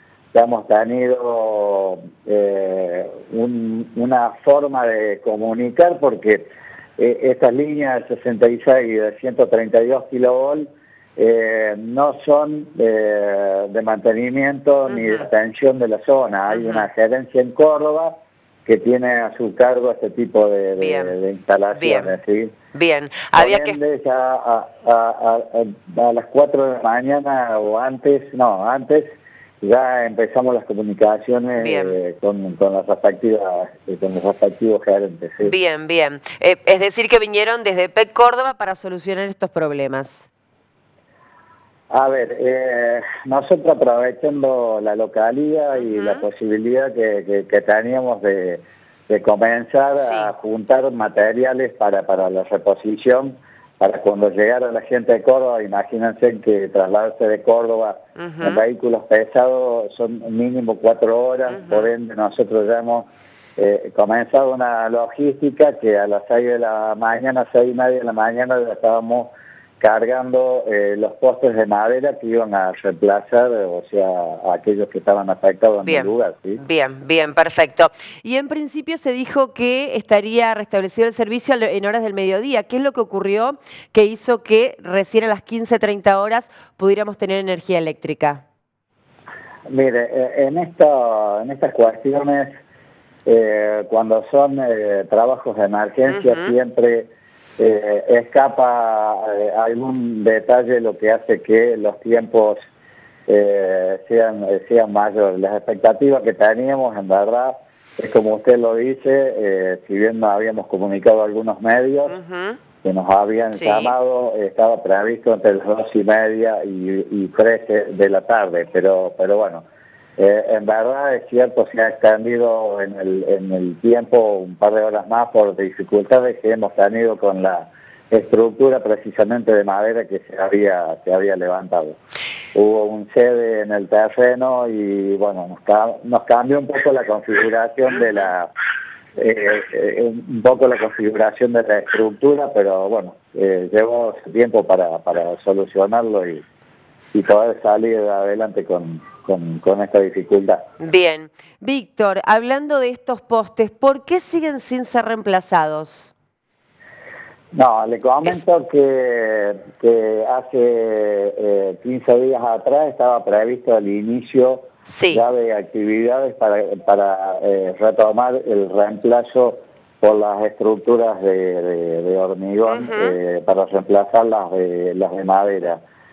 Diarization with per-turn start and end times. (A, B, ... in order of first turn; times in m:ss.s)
0:00.3-0:22.5 A
0:14.9-0:15.2 B
0:16.5-0:16.8 B
0:20.8-0:21.1 B
0:21.8-0:22.1 B
0:22.8-0:23.8 B
0:23.4-0:35.5 A
0:31.6-0:31.9 B
0:35.4-0:40.2 B
0:41.9-1:16.6 A
0:45.8-0:46.2 B
0:50.0-0:50.3 B
0:58.2-0:58.6 B
1:16.6-1:28.4 B
1:29.7-1:32.6 A
1:33.2-1:42.6 A
1:36.1-1:36.4 B
1:43.3-1:52.2 A
1:52.1-1:52.6 B
1:52.8-1:59.6 A
1:53.6-1:53.9 B
2:00.2-2:12.0 A
2:12.5-2:18.5 A
2:19.2-2:26.4 A
2:27.1-2:30.7 A
2:30.8-2:36.1 B
2:37.5-2:55.8 A
2:44.9-2:45.2 B
2:52.7-2:53.2 B